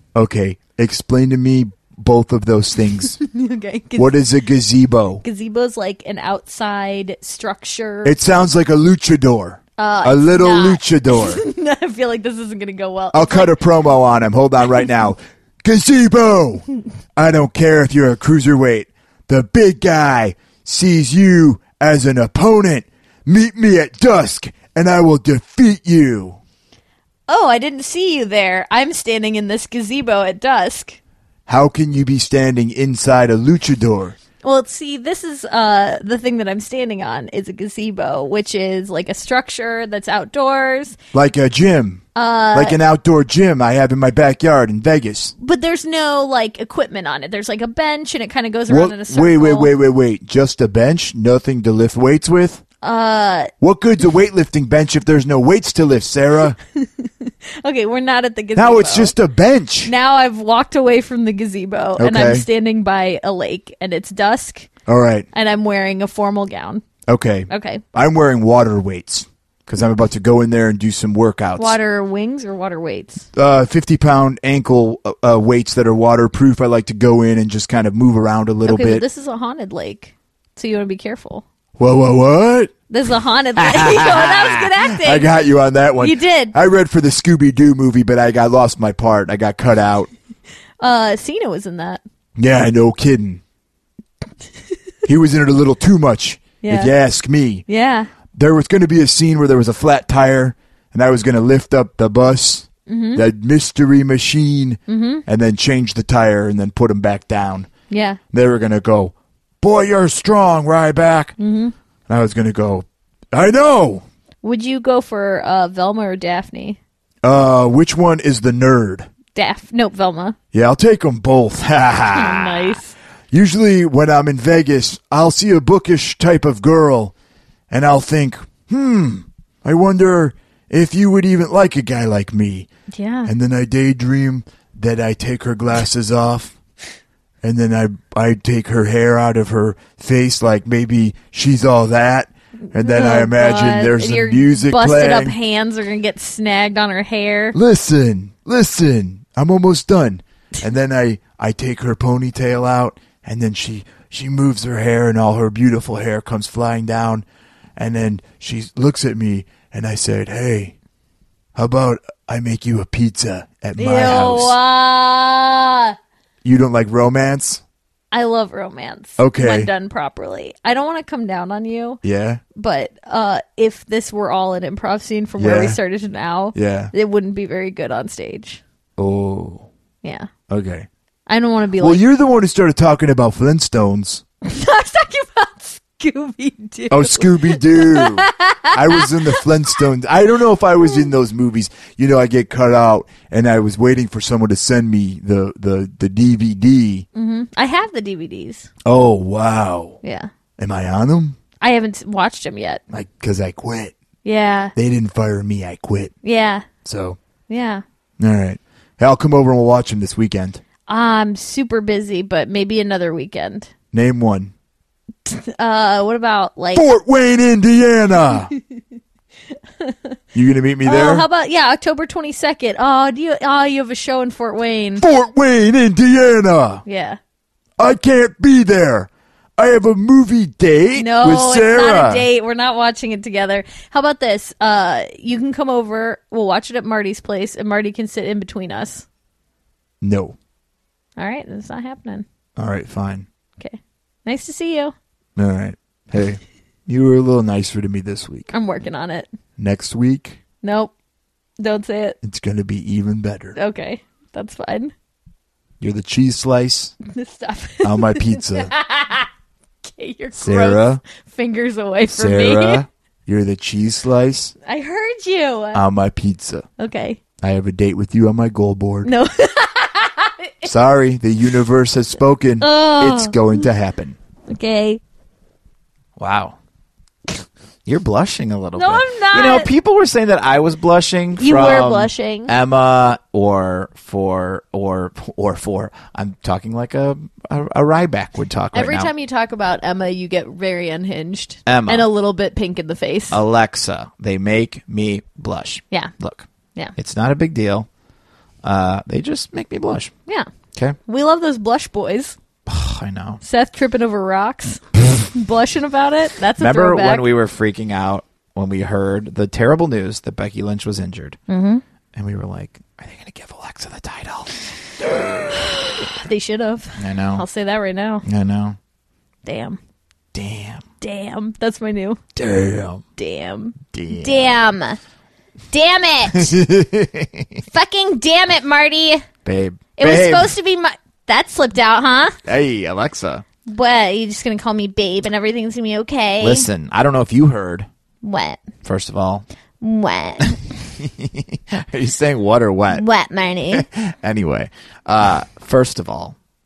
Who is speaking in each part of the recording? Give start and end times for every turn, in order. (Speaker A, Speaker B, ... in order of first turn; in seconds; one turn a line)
Speaker A: 0.1-3.2
Speaker B: 3.2-4.2
Speaker A: 4.0-5.2
Speaker B: 5.2-8.2
Speaker A: 8.0-11.4
Speaker B: 9.8-13.6
Speaker A: 13.1-26.4
Speaker B: 27.3-31.0
Speaker A: 31.5-34.2
Speaker B: 34.4-41.0
Speaker A: 41.1-45.3
Speaker B: 42.1-42.8
Speaker B: 45.4-49.7
Speaker A: 48.7-52.6
Speaker B: 52.8-53.5
Speaker A: 53.6-56.6
Speaker B: 56.8-59.1
Speaker A: 58.5-59.9
Speaker B: 59.9-64.7
Speaker A: 62.0-62.5
Speaker A: 64.9-65.3
Speaker B: 65.3-66.9
Speaker A: 67.1-71.8
Speaker B: 67.5-67.8
Speaker B: 71.6-73.3
Speaker A: 73.3-79.0
Speaker B: 78.7-81.4
Speaker A: 81.8-82.7
Speaker B: 82.9-85.3
Speaker A: 83.6-90.1
Speaker B: 86.0-86.5
Speaker B: 90.8-92.0
Speaker A: 92.4-93.4
Speaker A: 95.0-97.7
Speaker B: 96.6-96.9
Speaker B: 97.7-98.1
Speaker A: 98.3-107.7
Speaker B: 102.9-103.2
Speaker B: 104.9-105.2
Speaker B: 107.9-108.2
Speaker A: 108.3-111.3
Speaker B: 111.4-111.7
Speaker A: 112.1-114.0
Speaker B: 114.4-116.8
Speaker A: 117.2-119.1
Speaker B: 119.3-120.4
Speaker A: 120.5-122.8
Speaker B: 122.1-123.0
Speaker A: 123.3-127.1
Speaker A: 127.7-132.7
Speaker B: 132.9-133.3
Speaker A: 133.3-136.6
Speaker A: 137.4-145.3
Speaker B: 142.8-147.6
Speaker A: 147.5-157.2
Speaker A: 157.8-160.8
Speaker A: 161.6-164.6
Speaker B: 163.8-166.0
Speaker A: 166.4-167.6
Speaker B: 168.1-172.0
Speaker A: 169.2-169.7
Speaker A: 172.0-172.4
Speaker B: 172.6-178.6
Speaker A: 175.4-175.8
Speaker A: 176.6-176.9
Speaker A: 179.0-179.7
Speaker B: 180.0-180.3
Speaker A: 180.5-180.9
Speaker B: 181.3-182.0
Speaker A: 181.8-184.2
Speaker B: 184.4-189.8
Speaker A: 186.9-197.1
Speaker B: 197.2-198.7
Speaker A: 198.8-200.0
Speaker B: 200.0-200.3
Speaker A: 200.6-201.4
Speaker B: 201.6-202.8
Speaker A: 202.9-203.9
Speaker B: 204.2-204.7
Speaker A: 204.8-206.1
Speaker B: 206.2-206.7
Speaker A: 206.8-207.2
Speaker B: 207.5-207.8
Speaker A: 208.2-210.6
Speaker B: 210.9-213.7
Speaker A: 213.9-214.5
Speaker B: 215.2-216.9
Speaker A: 216.7-218.5
Speaker B: 219.8-220.2
Speaker A: 220.3-221.3
Speaker B: 220.8-225.1
Speaker A: 225.0-226.8
Speaker B: 226.9-227.2
Speaker A: 227.8-232.3
Speaker B: 231.0-239.1
Speaker A: 240.0-240.4
Speaker B: 241.2-242.2
Speaker A: 242.6-243.3
Speaker B: 243.6-244.9
Speaker A: 245.4-248.5
Speaker B: 248.5-249.3
Speaker A: 249.6-250.4
Speaker B: 250.6-250.9
Speaker B: 251.6-252.2
Speaker A: 252.2-253.6
Speaker B: 253.6-254.9
Speaker A: 255.8-256.9
Speaker B: 257.1-259.3
Speaker A: 257.8-258.7
Speaker B: 259.8-262.8
Speaker A: 260.4-261.0
Speaker A: 262.1-264.5
Speaker B: 264.6-265.8
Speaker A: 265.7-266.7
Speaker B: 266.8-267.2
Speaker A: 267.4-269.1
Speaker B: 269.0-270.7
Speaker A: 270.6-274.2
Speaker B: 272.6-273.6
Speaker B: 274.5-275.0
Speaker C: 276.2-276.6
Speaker C: 277.9-289.1
Speaker B: 278.8-279.7
Speaker B: 281.4-282.5
Speaker B: 288.7-293.4
Speaker C: 291.7-292.1
Speaker C: 293.3-297.9
Speaker C: 298.6-300.1
Speaker B: 301.1-302.4
Speaker C: 302.7-303.4
Speaker B: 303.4-307.3
Speaker C: 306.6-311.4
Speaker B: 311.5-311.8
Speaker C: 312.1-316.2
Speaker B: 316.0-318.2
Speaker C: 317.0-317.4
Speaker C: 318.2-318.8
Speaker B: 319.4-319.8
Speaker C: 320.3-320.8
Speaker B: 321.0-322.2
Speaker C: 322.4-323.0
Speaker B: 323.2-325.0
Speaker C: 323.9-324.6
Speaker B: 325.7-326.6
Speaker C: 326.4-327.5
Speaker B: 327.7-329.3
Speaker C: 329.4-330.6
Speaker B: 330.0-332.4
Speaker C: 332.4-333.4
Speaker B: 333.7-336.7
Speaker C: 336.4-337.9
Speaker B: 338.2-338.7
Speaker C: 338.8-339.4
Speaker B: 339.8-340.6
Speaker C: 341.0-343.1
Speaker B: 342.9-343.9
Speaker C: 343.7-346.4